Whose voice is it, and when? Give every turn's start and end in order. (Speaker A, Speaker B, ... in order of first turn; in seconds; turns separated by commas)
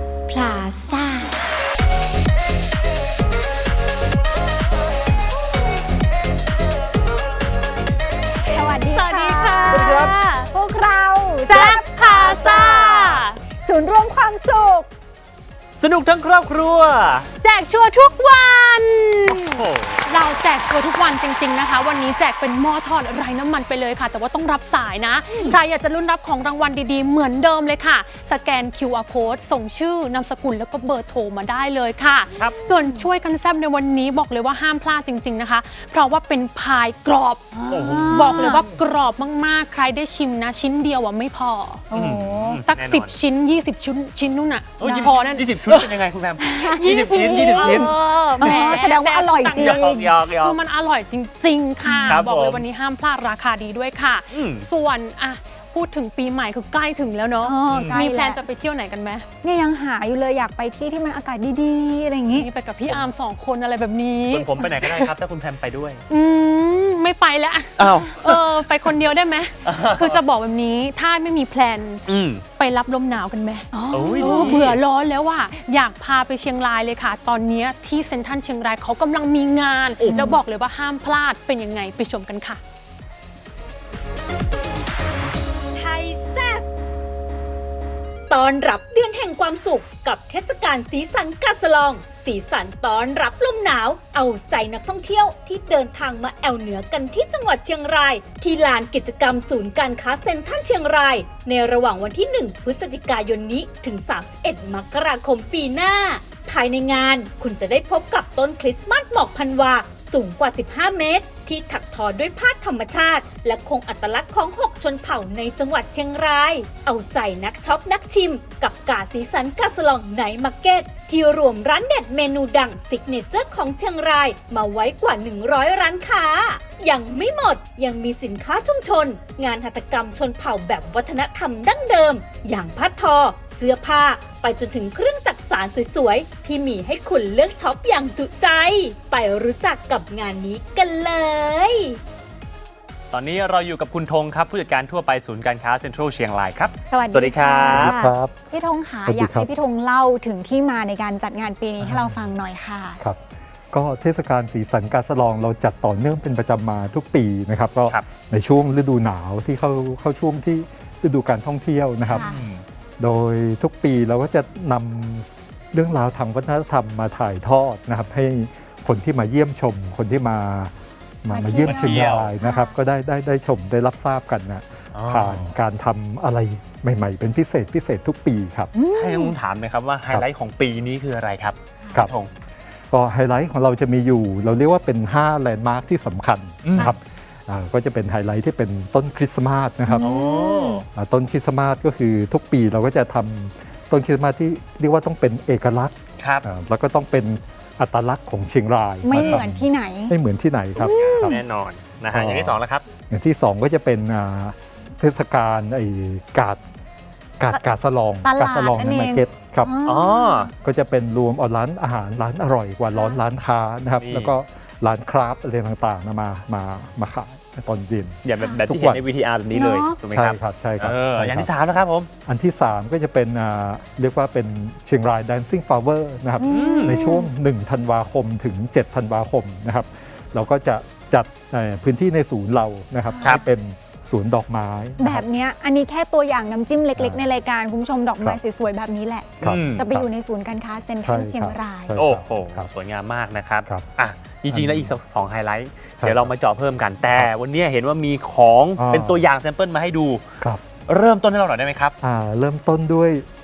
Speaker A: 0.3-1.4, Speaker B: 8.5-13.0, Speaker C: 8.9-10.5, Speaker D: 9.7-10.1, Speaker C: 11.5-13.4, Speaker D: 12.1-13.2, Speaker B: 13.6-14.9, Speaker D: 15.7-17.3, Speaker C: 17.4-37.5, Speaker D: 19.3-20.1, Speaker B: 32.7-33.1, Speaker B: 37.5-38.7, Speaker D: 37.7-38.6, Speaker C: 38.1-41.8, Speaker B: 41.9-42.6, Speaker D: 41.9-43.1, Speaker C: 42.6-45.7, Speaker D: 44.8-48.7, Speaker B: 44.8-45.2, Speaker B: 46.4-50.0, Speaker C: 46.6-59.2, Speaker D: 49.5-50.6, Speaker B: 51.8-52.2, Speaker D: 52.1-52.6, Speaker D: 54.3-54.6, Speaker B: 57.4-58.4, Speaker D: 57.7-58.0, Speaker B: 59.4-62.5, Speaker C: 62.3-64.9, Speaker D: 64.3-66.0, Speaker C: 66.1-82.6, Speaker D: 67.8-68.4, Speaker D: 69.6-70.2, Speaker D: 72.1-72.4, Speaker B: 73.7-74.7, Speaker D: 73.9-74.8, Speaker B: 80.0-80.4, Speaker A: 85.8-86.6, Speaker A: 88.3-141.9, Speaker D: 143.1-147.9, Speaker B: 146.9-153.0, Speaker E: 147.6-148.4, Speaker E: 149.0-149.5, Speaker E: 153.7-162.3, Speaker B: 162.1-162.4, Speaker D: 162.1-162.6, Speaker E: 163.0-170.7, Speaker E: 171.2-178.7, Speaker B: 171.3-172.8, Speaker D: 171.6-172.3, Speaker D: 174.9-175.5, Speaker B: 178.7-179.3, Speaker D: 178.9-182.3, Speaker B: 181.8-182.1, Speaker E: 182.9-190.2, Speaker D: 186.6-186.9, Speaker B: 189.9-190.8, Speaker D: 190.0-190.8, Speaker E: 190.9-201.4, Speaker D: 196.2-196.5, Speaker B: 199.0-200.1, Speaker D: 199.1-199.4, Speaker D: 200.7-202.8, Speaker B: 200.8-201.4, Speaker E: 202.1-206.6, Speaker E: 207.4-209.7, Speaker B: 208.2-210.5, Speaker D: 209.8-210.5, Speaker E: 210.6-219.0, Speaker B: 212.9-213.2, Speaker D: 214.0-214.3, Speaker D: 218.2-222.1, Speaker B: 219.5-220.0, Speaker E: 220.0-221.5, Speaker E: 222.2-235.2, Speaker B: 226.4-227.3, Speaker D: 226.4-227.0, Speaker B: 233.1-233.5, Speaker B: 235.0-241.9, Speaker E: 236.9-237.2, Speaker E: 239.4-240.1, Speaker D: 239.4-239.9, Speaker E: 241.0-242.7, Speaker D: 241.9-250.2, Speaker E: 244.5-244.9, Speaker E: 246.0-246.3, Speaker E: 248.8-249.3, Speaker D: 250.8-251.9, Speaker E: 252.0-253.2